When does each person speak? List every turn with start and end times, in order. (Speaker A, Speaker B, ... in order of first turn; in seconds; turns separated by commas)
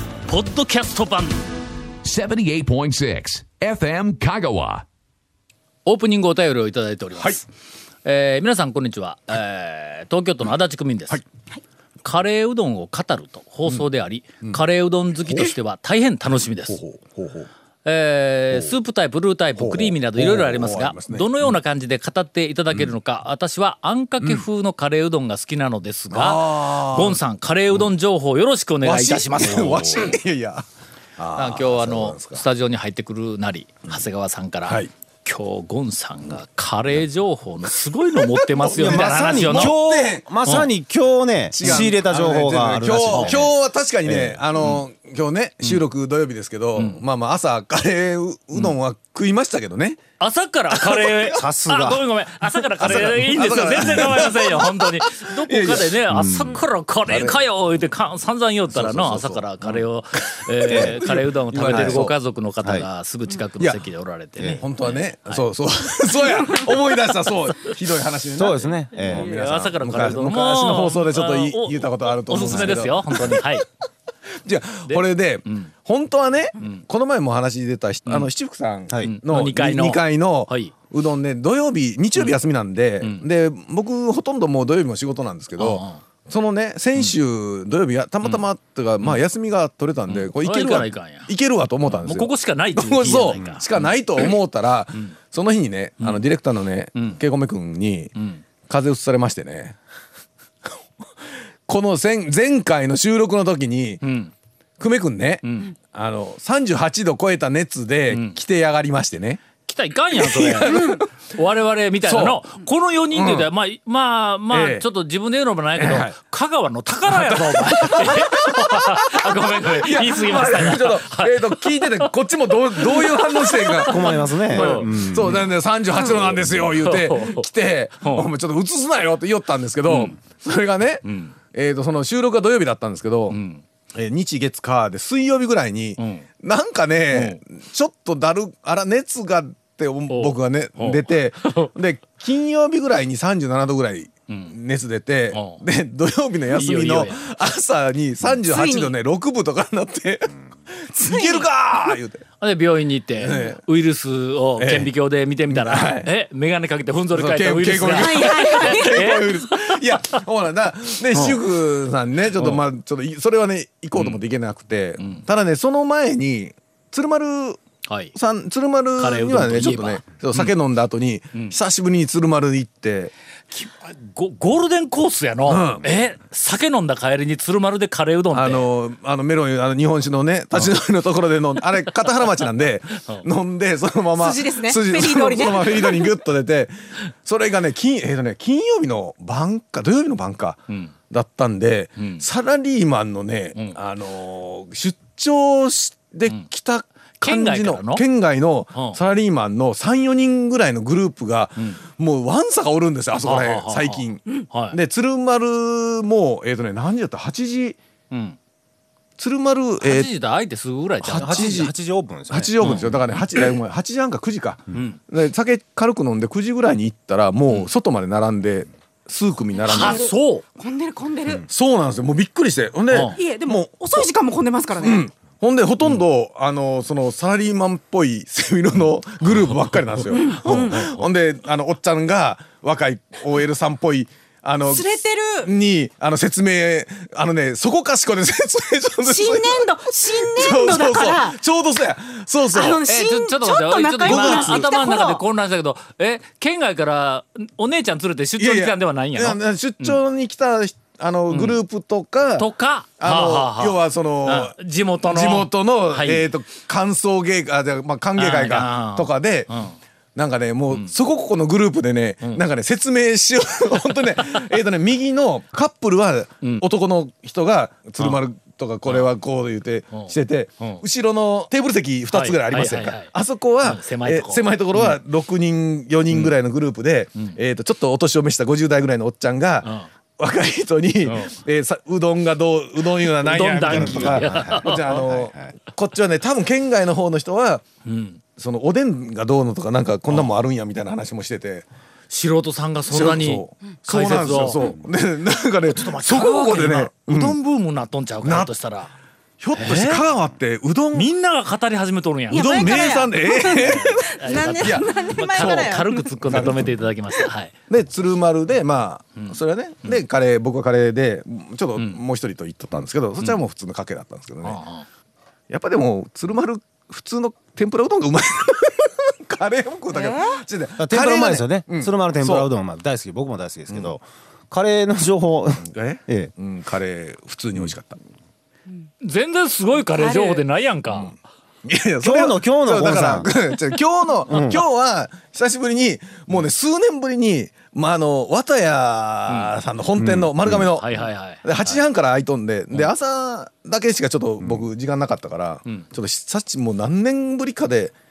Speaker A: 0.3-1.4, Speaker B: 2.0-4.8, Speaker A: 5.9-7.4, Speaker A: 8.1-11.2, Speaker A: 12.0-16.8, Speaker C: 15.3-15.5, Speaker C: 16.7-17.5, Speaker A: 17.9-30.2, Speaker C: 19.6-21.5, Speaker C: 26.1-27.2, Speaker C: 28.8-30.6, Speaker C: 31.2-32.4, Speaker A: 31.4-39.8, Speaker C: 38.2-40.3, Speaker D: 38.7-43.5, Speaker C: 41.5-50.0, Speaker D: 44.0-44.4, Speaker A: 50.2-65.4, Speaker C: 50.8-51.2, Speaker D: 51.3-52.1, Speaker C: 52.8-56.0, Speaker D: 52.8-53.1, Speaker D: 56.1-56.6, Speaker C: 57.1-57.4, Speaker C: 58.7-62.1, Speaker D: 60.7-61.0, Speaker D: 61.6-62.1, Speaker C: 64.4-73.5, Speaker D: 68.3-69.3, Speaker A: 69.0-73.7, Speaker C: 74.4-98.1, Speaker A: 74.9-75.7, Speaker A: 79.0-80.7, Speaker A: 85.6-86.0, Speaker A: 90.1-91.3, Speaker A: 91.9-94.3, Speaker A: 97.0-97.2, Speaker A: 98.2-98.4, Speaker C: 98.7-99.8, Speaker C: 101.7-104.0, Speaker A: 104.0-104.3, Speaker C: 104.8-109.4, Speaker A: 105.4-105.7, Speaker A: 108.1-108.4, Speaker A: 109.7-122.1, Speaker C: 110.2-111.0, Speaker E: 110.7-111.0, Speaker C: 112.0-112.4, Speaker C: 113.1-113.5, Speaker C: 114.5-114.8, Speaker C: 115.8-116.1, Speaker C: 117.1-133.4, Speaker A: 122.8-124.9, Speaker D: 123.8-125.5, Speaker A: 126.0-127.5, Speaker A: 128.0-128.3, Speaker A: 129.9-130.2, Speaker A: 131.0-131.3, Speaker A: 133.3-133.6, Speaker C: 133.9-152.2, Speaker A: 136.0-136.2, Speaker A: 137.1-137.4, Speaker A: 140.1-141.7, Speaker A: 144.3-144.5, Speaker A: 145.3-145.6, Speaker A: 146.5-147.3, Speaker E: 148.4-148.9, Speaker E: 151.0-151.9, Speaker A: 152.4-160.2, Speaker C: 153.2-153.6, Speaker C: 154.6-154.9, Speaker C: 155.5-156.1, Speaker C: 157.1-167.6, Speaker E: 157.9-159.3, Speaker A: 161.1-161.4, Speaker A: 162.4-162.6, Speaker A: 163.9-164.2, Speaker A: 165.0-165.2, Speaker A: 167.9-168.2, Speaker C: 168.2-173.1, Speaker A: 169.0-170.5, Speaker A: 173.5-178.7, Speaker C: 175.5-175.9, Speaker C: 178.3-207.8, Speaker E: 184.2-186.1, Speaker A: 192.0-192.2, Speaker A: 197.2-198.0, Speaker A: 203.2-204.8, Speaker A: 208.1-208.4, Speaker C: 209.2-210.1, Speaker A: 209.8-211.6, Speaker C: 211.0-211.7, Speaker D: 211.2-212.6, Speaker C: 212.3-220.1, Speaker A: 212.6-213.4, Speaker A: 214.7-215.0, Speaker E: 219.6-221.5, Speaker A: 219.7-220.4, Speaker C: 221.5-224.1, Speaker A: 222.9-223.2, Speaker E: 223.1-225.1, Speaker C: 224.8-242.8, Speaker A: 229.5-231.1, Speaker E: 230.1-230.8, Speaker E: 234.7-235.5, Speaker E: 239.1-241.4, Speaker E: 242.5-245.2, Speaker A: 242.8-250.0, Speaker C: 244.0-244.7, Speaker C: 248.4-252.5, Speaker A: 251.3-251.6, Speaker A: 252.4-256.3, Speaker C: 253.0-259.5, Speaker A: 258.2-259.8, Speaker C: 260.2-287.6, Speaker A: 269.9-270.8, Speaker A: 272.1-273.1, Speaker A: 273.6-275.0, Speaker A: 279.6-279.9, Speaker A: 281.1-281.4, Speaker A: 283.0-285.0, Speaker D: 283.7-285.5, Speaker A: 287.9-288.2, Speaker C: 288.4-291.7, Speaker A: 292.1-294.8, Speaker C: 292.9-297.4, Speaker A: 295.7-298.9, Speaker C: 298.2-298.5, Speaker C: 299.4-301.1, Speaker A: 299.6-300.0, Speaker A: 300.9-302.9, Speaker E: 302.3-306.1, Speaker C: 302.3-306.7, Speaker A: 303.5-307.5, Speaker C: 307.7-314.6, Speaker A: 309.2-310.0, Speaker A: 314.4-314.9, Speaker C: 315.5-322.5, Speaker E: 319.9-320.4, Speaker D: 320.8-326.3, Speaker C: 325.6-328.0, Speaker A: 329.0-331.1, Speaker E: 330.0-330.4, Speaker C: 331.6-347.9, Speaker D: 332.0-333.3, Speaker D: 334.3-334.6, Speaker D: 340.0-340.3, Speaker A: 340.7-341.8